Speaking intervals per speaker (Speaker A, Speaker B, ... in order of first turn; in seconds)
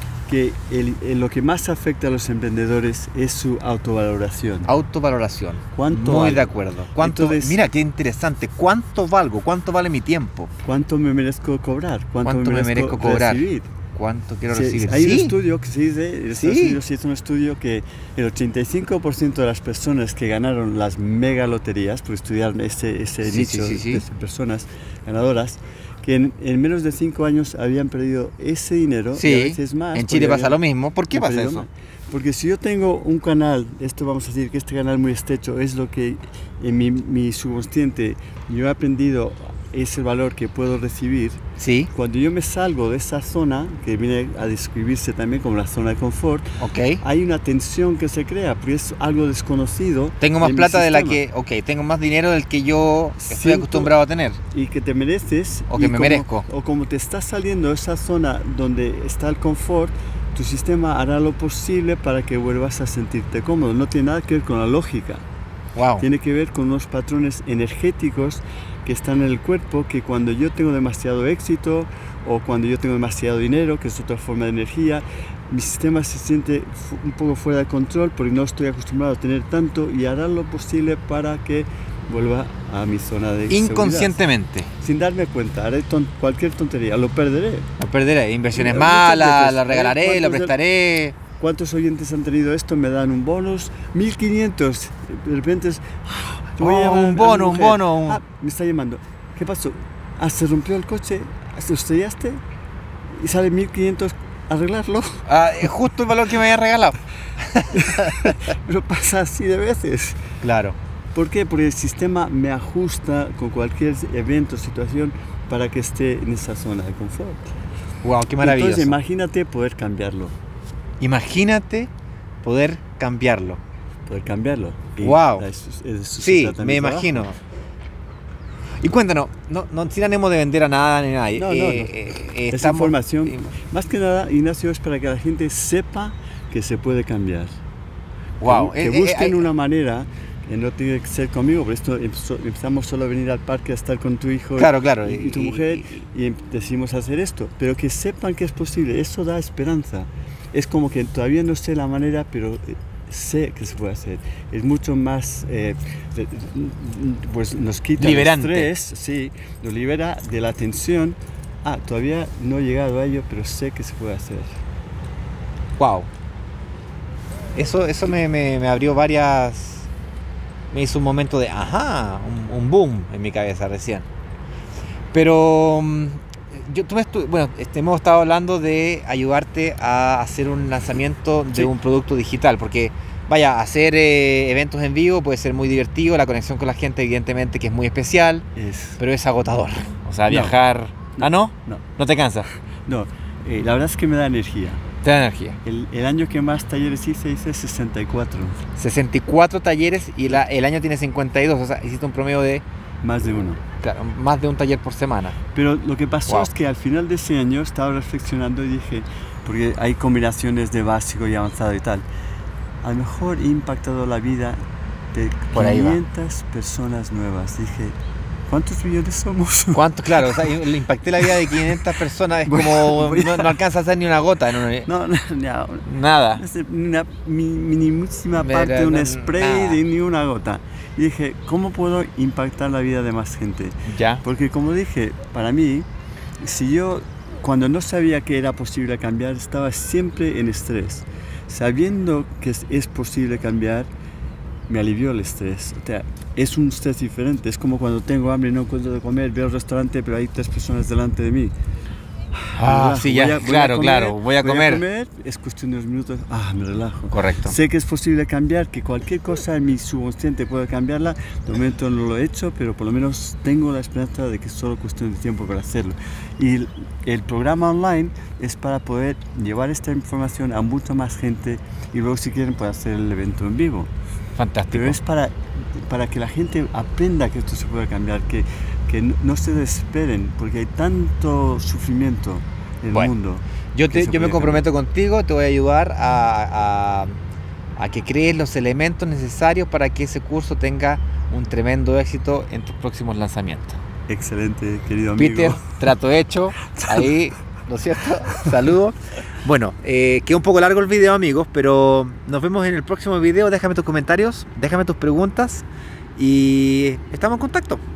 Speaker A: 0.3-4.7, 5.7-7.6, 10.6-13.7, 14.5-30.6, 31.1-41.4, 41.9-46.5, 47.0-51.2, 53.2-53.9, 54.5-65.2, 66.0-84.2, 84.8-87.7, 88.5-90.6, 91.4-102.4, 103.2-105.2, 107.7-110.2, 111.1-117.5, 118.4-120.3, 124.0-127.3, 131.4-131.9, 132.5-137.5, 138.4-164.5, 188.6-189.0, 190.3-190.5, 191.2-191.8, 192.8-194.8, 195.6-198.6, 203.0-203.6, 205.5-212.0, 212.8-214.6, 215.1-217.9, 218.5-220.6, 221.2-223.6, 224.8-235.9, 236.4-243.9, 244.7-251.5, 252.3-273.9, 274.7-284.7, 294.1-295.6, 296.8-297.1
Speaker B: 4.7-10.5, 12.2-15.3, 16.3-16.8, 23.2-24.0, 29.1-31.6, 41.6-41.9, 46.6-47.0, 50.2-54.4, 55.7-56.5, 65.7-66.0, 83.5-84.7, 87.8-91.2, 96.6-98.2, 105.2-108.4, 110.4-110.8, 118.0-119.0, 121.0-121.9, 122.4-123.6, 125.0-125.5, 126.2-127.4, 128.8-133.4, 138.4-139.5, 144.6-145.9, 158.0-158.7, 165.8-166.1, 167.5-169.9, 170.7-174.1, 175.1-188.4, 189.0-192.5, 195.0-195.6, 198.8-202.6, 203.8-205.4, 215.5-216.0, 219.7-224.9, 225.8-226.4, 228.3-229.8, 233.9-234.2, 252.5-254.8, 257.1-257.6, 274.4-275.0, 283.7-287.2, 287.8-293.8, 295.2-305.6, 306.1-307.8